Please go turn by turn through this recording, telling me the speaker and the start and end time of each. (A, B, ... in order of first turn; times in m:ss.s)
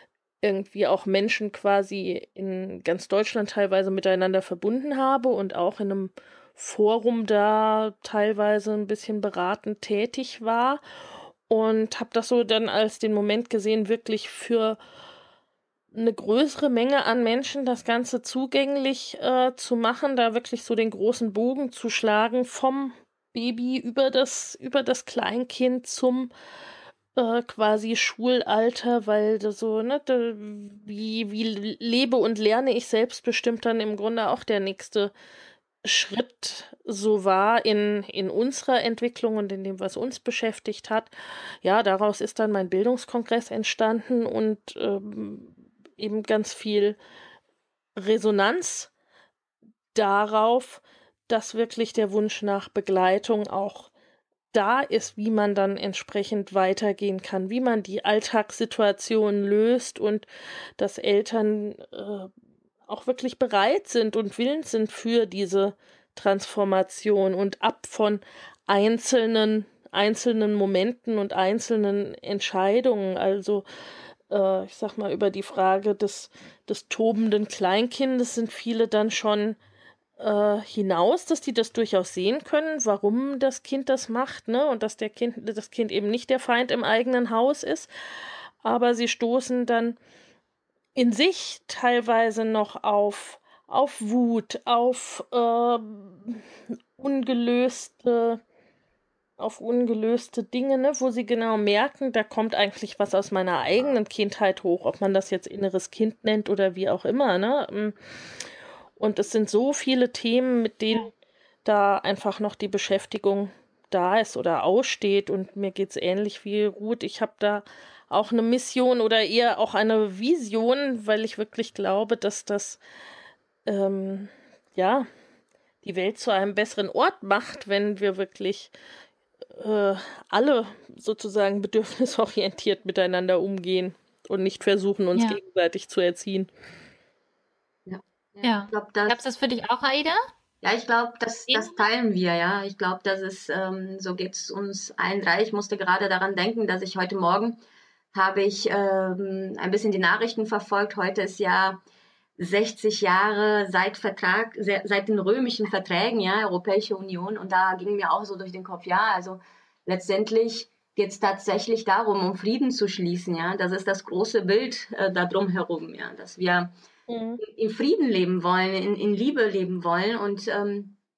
0:00.4-0:10.8 A
0:11.5-0:14.8 A
0:15.9-0:26.3 A
0:27.2-0:35.1 A
0:35.8-0:41.1 A
0:41.6-0:47.0 A
0:48.0-0:48.9 A
0:49.9-0:53.9 A
0:54.5-1:00.2 A
1:00.8-1:02.3 A
1:02.9-1:13.6 A
1:14.3-1:19.6 A
1:20.2-1:27.9 A
1:28.6-1:30.0 A
1:31.0-1:38.4 A
1:39.4-1:48.0 A
1:49.0-1:51.1 A
1:51.6-2:02.8 A
2:03.6-2:05.1 A
2:05.8-2:08.7 A
2:09.5-2:16.5 A
2:15.1-2:15.4 B
2:17.9-2:19.2 C
2:18.4-2:20.2 B
2:20.6-2:27.6 C
2:21.5-2:21.7 B
2:28.1-2:31.8 C
2:32.4-2:46.7 C
2:47.1-2:47.4 A
2:47.4-2:51.0 C